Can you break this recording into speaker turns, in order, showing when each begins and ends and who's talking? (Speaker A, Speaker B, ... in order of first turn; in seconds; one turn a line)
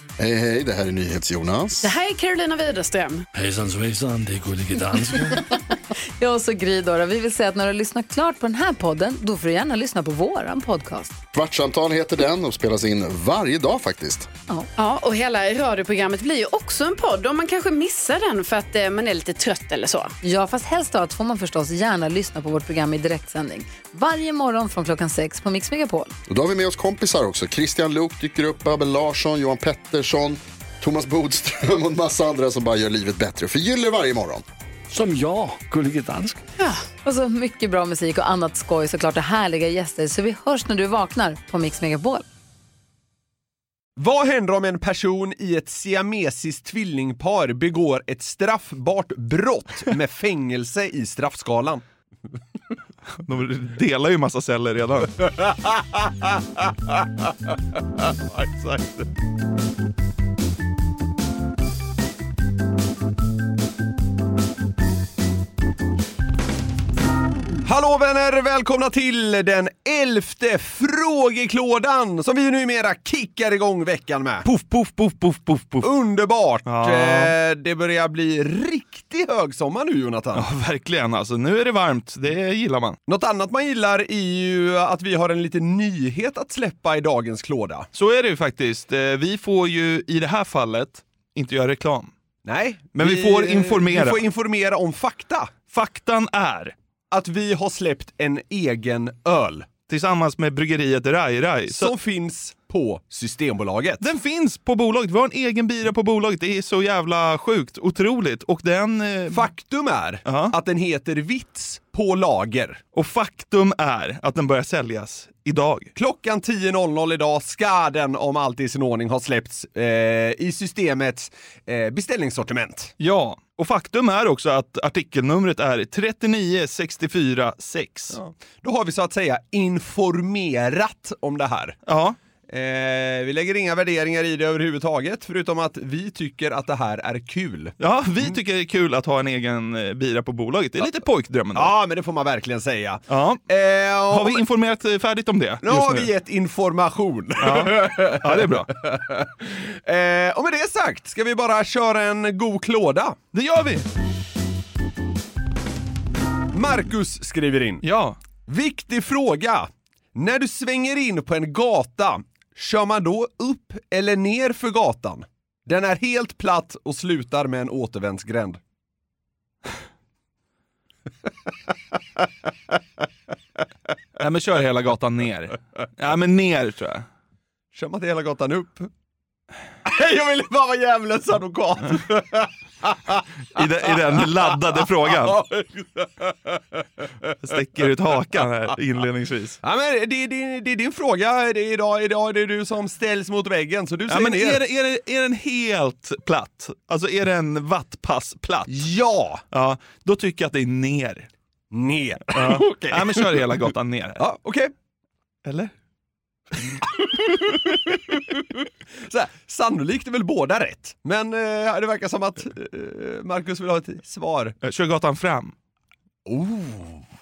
Speaker A: 0.2-1.9
Speaker B: 1.8-3.2
Speaker C: 3.3-5.4
Speaker D: 6.2-11.2
Speaker A: 11.3-14.3
Speaker B: 14.8-20.1
Speaker D: 20.2-26.1
Speaker A: 26.3-34.4
Speaker C: 34.9-36.4
Speaker D: 36.6-42.2
Speaker E: 44.0-51.8
Speaker F: 53.2-55.2
Speaker E: 55.4-57.3
Speaker E: 58.0-59.1
Speaker E: 67.6-74.5
Speaker F: 74.4-75.9
Speaker E: 75.8-80.5
Speaker F: 76.7-77.3
Speaker F: 80.3-83.0
Speaker E: 83.1-87.9
Speaker F: 87.9-92.1
Speaker E: 92.4-95.5
Speaker F: 93.0-94.2
Speaker F: 95.7-96.7
Speaker E: 97.1-99.7
Speaker F: 99.9-101.9
Speaker E: 101.7-104.1
Speaker F: 104.0-109.5
Speaker E: 109.3-112.8
Speaker F: 110.2-110.5
Speaker F: 112.9-115.9
Speaker E: 116.0-122.9
Speaker F: 123.0-128.2
Speaker E: 128.1-131.8
Speaker F: 131.8-132.2
Speaker E: 132.5-138.3
Speaker F: 137.8-141.7
Speaker E: 141.5-144.4
Speaker F: 143.1-143.4
Speaker F: 144.1-146.1
Speaker E: 145.6-153.2
Speaker F: 147.4-148.7
Speaker F: 153.3-153.8
Speaker E: 156.5-157.8
Speaker F: 157.8-158.2
Speaker E: 158.5-168.6
Speaker F: 174.2-177.0
Speaker E: 177.7-178.9
Speaker E: 179.8-187.1
Speaker F: 183.5-185.4
Speaker F: 187.4-189.6
Speaker E: 189.6-194.6
Speaker F: 194.1-198.7
Speaker E: 198.7-199.4
Speaker F: 199.5-201.3
Speaker E: 201.7-203.5
Speaker F: 202.3-204.2
Speaker E: 204.2-204.7
Speaker F: 205.4-205.7
Speaker E: 207.1-214.6
Speaker F: 214.6-215.5
Speaker E: 216.2-217.0